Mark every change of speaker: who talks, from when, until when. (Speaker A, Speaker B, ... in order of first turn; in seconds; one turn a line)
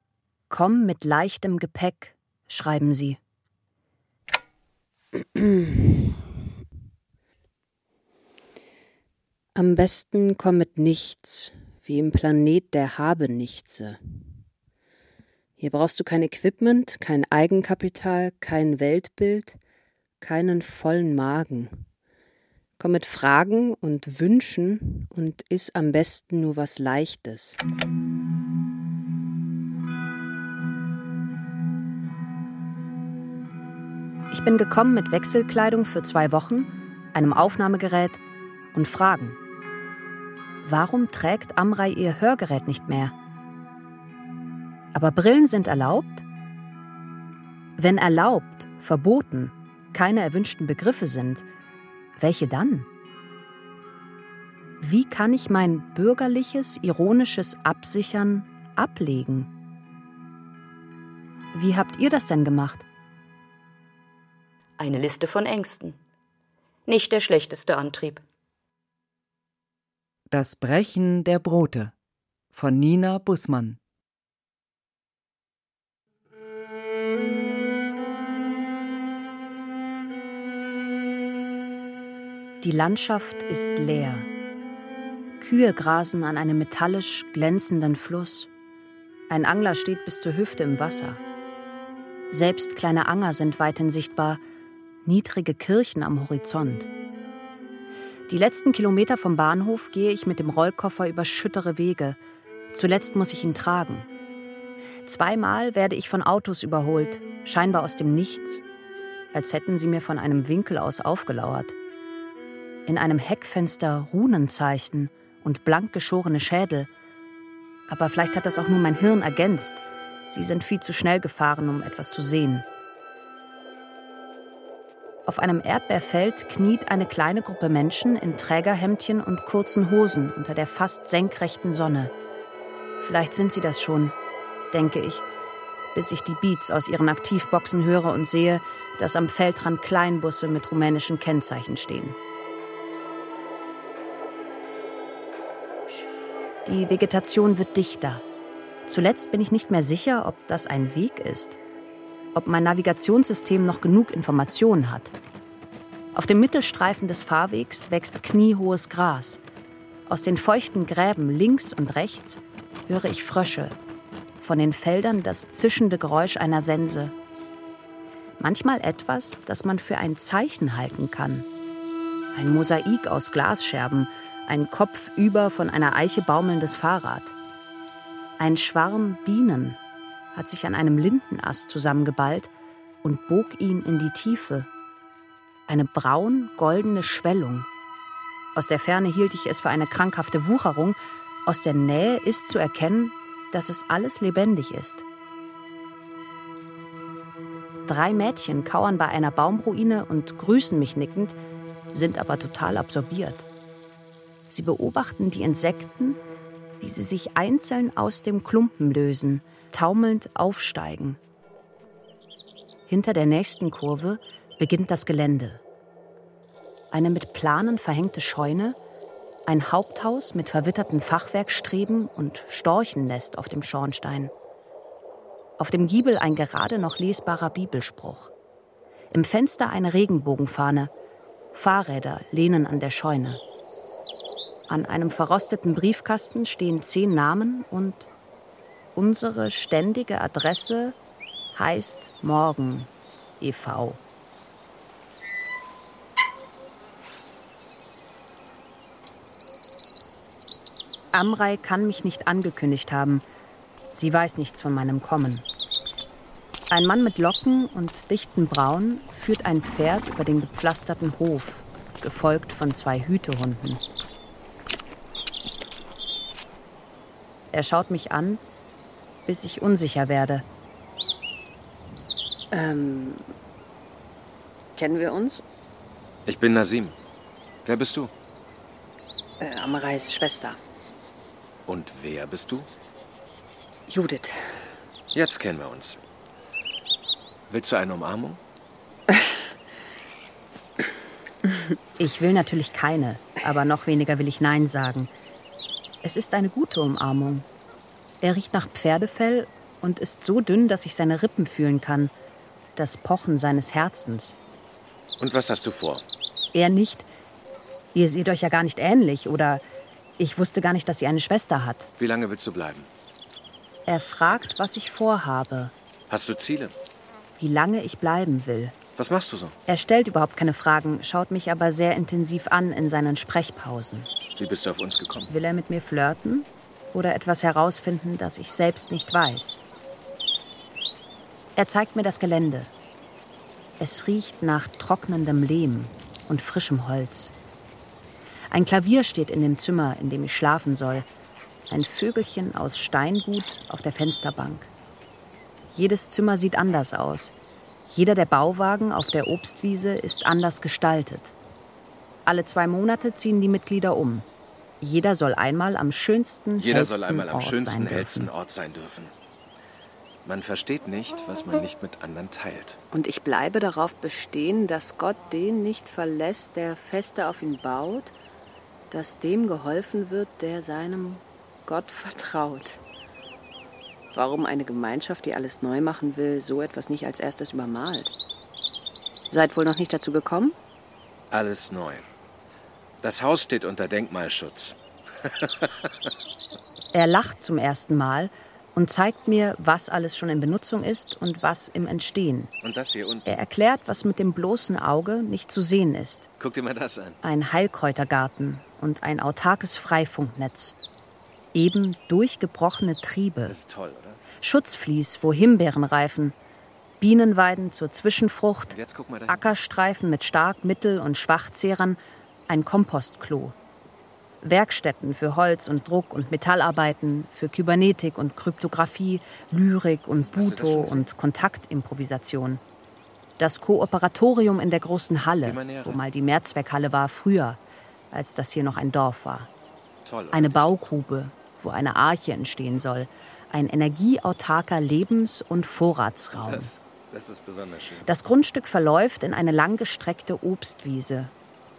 Speaker A: 0.5-3.2
Speaker A: 5.3-6.1
Speaker A: 9.5-14.0
Speaker A: 15.6-19.6
Speaker A: 20.2-21.8
Speaker A: 22.8-27.6
Speaker A: 34.3-38.2
Speaker A: 38.7-39.4
Speaker A: 40.6-43.1
Speaker A: 44.9-46.2
Speaker A: 47.8-51.4
Speaker A: 52.2-52.9
Speaker A: 54.8-59.5
Speaker A: 61.5-62.8
Speaker B: 64.8-66.0
Speaker B: 66.9-68.2
Speaker C: 70.3-71.9
Speaker C: 72.5-73.8
Speaker A: 82.6-84.3
Speaker A: 85.4-88.5
Speaker A: 89.3-91.2
Speaker A: 92.3-94.4
Speaker A: 95.0-96.9
Speaker A: 98.3-102.2
Speaker A: 102.7-104.1
Speaker A: 105.0-108.6
Speaker A: 109.3-111.8
Speaker A: 112.8-116.9
Speaker A: 117.9-122.7
Speaker A: 125.3-132.1
Speaker A: 133.0-134.1
Speaker A: 134.7-135.2
Speaker A: 135.9-142.2
Speaker A: 146.7-148.2
Speaker A: 148.9-151.6
Speaker A: 152.3-155.1
Speaker A: 156.1-159.4
Speaker A: 160.1-163.8
Speaker A: 164.4-167.1
Speaker A: 168.4-171.4
Speaker A: 172.3-177.3
Speaker A: 178.4-179.8
Speaker A: 180.3-182.5
Speaker A: 183.0-184.7
Speaker A: 185.7-187.7
Speaker A: 188.5-195.0
Speaker A: 197.9-201.3
Speaker A: 201.9-203.4
Speaker A: 204.5-206.2
Speaker A: 206.8-211.2
Speaker A: 212.9-215.6
Speaker A: 216.9-218.8
Speaker A: 219.5-224.3
Speaker A: 225.6-228.3
Speaker A: 229.1-230.9
Speaker A: 231.5-233.4
Speaker A: 234.7-238.1
Speaker A: 238.9-240.9
Speaker A: 241.5-244.0
Speaker A: 251.1-253.2
Speaker A: 253.9-255.4
Speaker A: 256.7-263.8
Speaker A: 267.5-268.4
Speaker A: 269.2-270.4
Speaker A: 272.5-273.2
Speaker A: 274.8-275.4
Speaker D: 276.2-276.9
Speaker D: 277.6-278.1
Speaker A: 279.4-280.6
Speaker D: 281.7-282.7
Speaker A: 283.9-284.6
Speaker D: 285.1-286.0
Speaker D: 287.5-288.4
Speaker A: 292.0-295.1
Speaker A: 296.0-297.4
Speaker A: 298.2-302.1
Speaker A: 302.8-304.4
Speaker D: 305.2-306.0
Speaker A: 306.5-307.1
Speaker A: 307.9-309.6
Speaker A: 310.2-311.9
Speaker D: 312.0-312.9
Speaker A: 313.9-315.7
Speaker D: 316.1-316.7
Speaker A: 317.4-318.7
Speaker D: 319.0-319.6
Speaker A: 319.7-324.1
Speaker D: 324.4-325.3
Speaker A: 325.3-329.6
Speaker A: 331.6-332.7
Speaker A: 333.8-337.3
Speaker A: 338.5-341.1
Speaker A: 341.7-344.7
Speaker A: 345.7-347.3
Speaker A: 347.9-351.3
Speaker A: 352.2-354.2
Speaker A: 354.8-358.3
Speaker D: 356.6-359.1
Speaker D: 360.2-362.8
Speaker A: 362.9-368.1
Speaker A: 368.9-372.8
Speaker A: 374.1-378.1
Speaker A: 379.3-380.6
Speaker D: 381.3-382.1
Speaker D: 383.0-385.9
Speaker A: 386.9-392.5
Speaker D: 392.6-393.2
Speaker A: 393.2-396.3
Speaker D: 396.4-397.2
Speaker A: 397.2-400.7
Speaker A: 401.5-403.5
Speaker D: 403.4-404.2
Speaker A: 404.4-406.4
Speaker A: 407.0-408.7
Speaker D: 408.7-409.4
Speaker A: 409.3-413.5
Speaker A: 414.4-422.6
Speaker D: 420.3-421.1
Speaker A: 423.4-427.6
Speaker D: 425.4-426.0
Speaker A: 428.1-429.5
Speaker D: 430.1-430.8
Speaker A: 430.3-436.7
Speaker D: 436.4-438.1
Speaker A: 438.1-441.3